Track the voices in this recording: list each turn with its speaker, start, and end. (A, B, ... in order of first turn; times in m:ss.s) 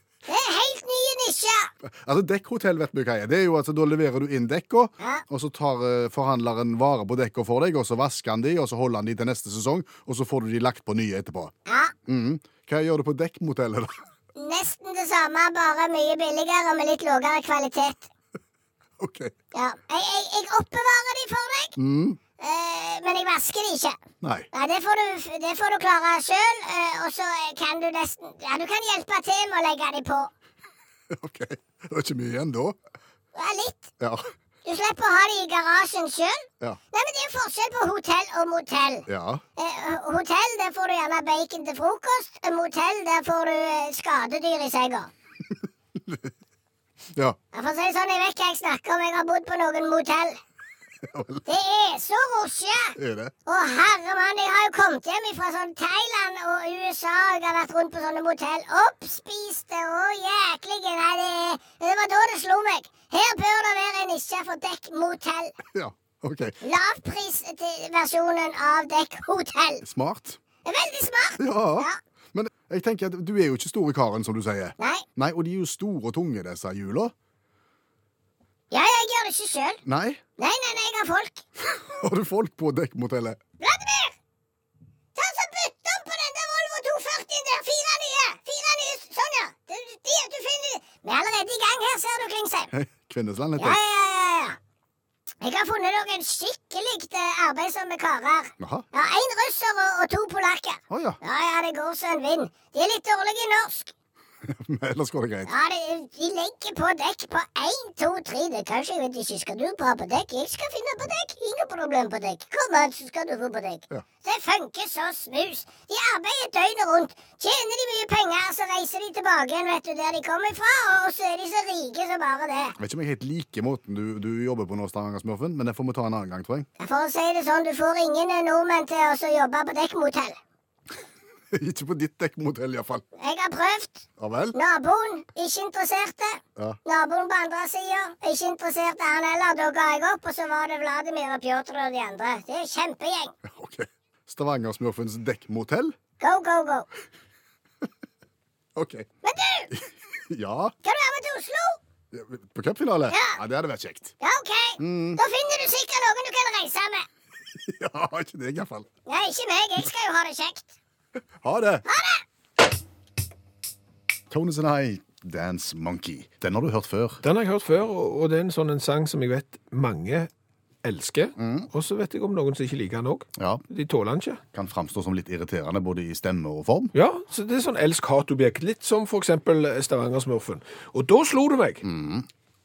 0:00.3-0:01.7 A
0:01.8-0:11.5 B
0:11.7-0:11.9 A
0:12.0-0:14.0 B
0:14.4-0:18.1 A
0:19.0-0:19.3 B
0:19.5-0:21.8 A
0:21.8-0:22.2 B
0:22.4-0:24.0 A
0:24.2-0:24.5 B
0:24.5-0:30.3 A
0:31.1-0:32.8 B
0:33.3-0:33.9 A
0:34.0-0:34.3 B
0:34.6-0:39.0 A
0:39.1-0:39.4 B
0:39.6-0:45.1 A
0:46.0-0:46.3 B
0:47.5-0:50.4 A
0:51.0-0:51.4 B
0:51.5-1:05.5 A
0:53.0-0:53.3 B
1:05.7-1:06.5 B
1:06.6-1:09.8 A
1:09.8-1:10.4 B
1:10.6-1:12.0 A
1:11.4-1:17.1 B
1:14.8-1:15.0 A
1:18.7-1:19.8 A
1:19.8-1:20.2 B
1:20.4-1:21.4 A
1:21.6-1:23.4 B
1:23.6-1:24.2 A
1:25.2-1:32.7 A
1:32.7-1:33.8 B
1:33.6-1:34.6 A
1:35.4-1:43.9 A
1:38.6-1:38.8 B
1:40.9-1:41.2 B
1:44.4-1:45.5 B
1:45.5-2:02.8 A
2:02.8-2:06.7 B
2:06.8-2:10.4 A
2:11.5-2:13.0 B
2:13.2-2:23.3 A
2:14.2-2:14.6 B
2:23.4-2:26.0 B
2:26.2-2:26.9 A
2:28.8-2:29.1 B
2:29.2-2:29.7 A
2:29.7-2:30.7 B
2:30.8-2:31.8 A
2:32.1-2:34.1 B
2:33.1-2:33.4 A
2:34.2-2:37.0 A
2:34.8-2:35.2 B
2:37.5-2:38.9 B
2:39.0-2:40.7 A
2:41.4-2:41.8 B
2:41.9-2:42.2 A
2:44.3-2:47.2 B
2:47.2-2:50.3 C
2:50.8-2:54.4 C
2:51.4-2:51.7 B
2:53.4-2:53.6 B
2:54.5-2:56.9 B
2:56.9-3:01.8 C
3:01.8-3:02.2 B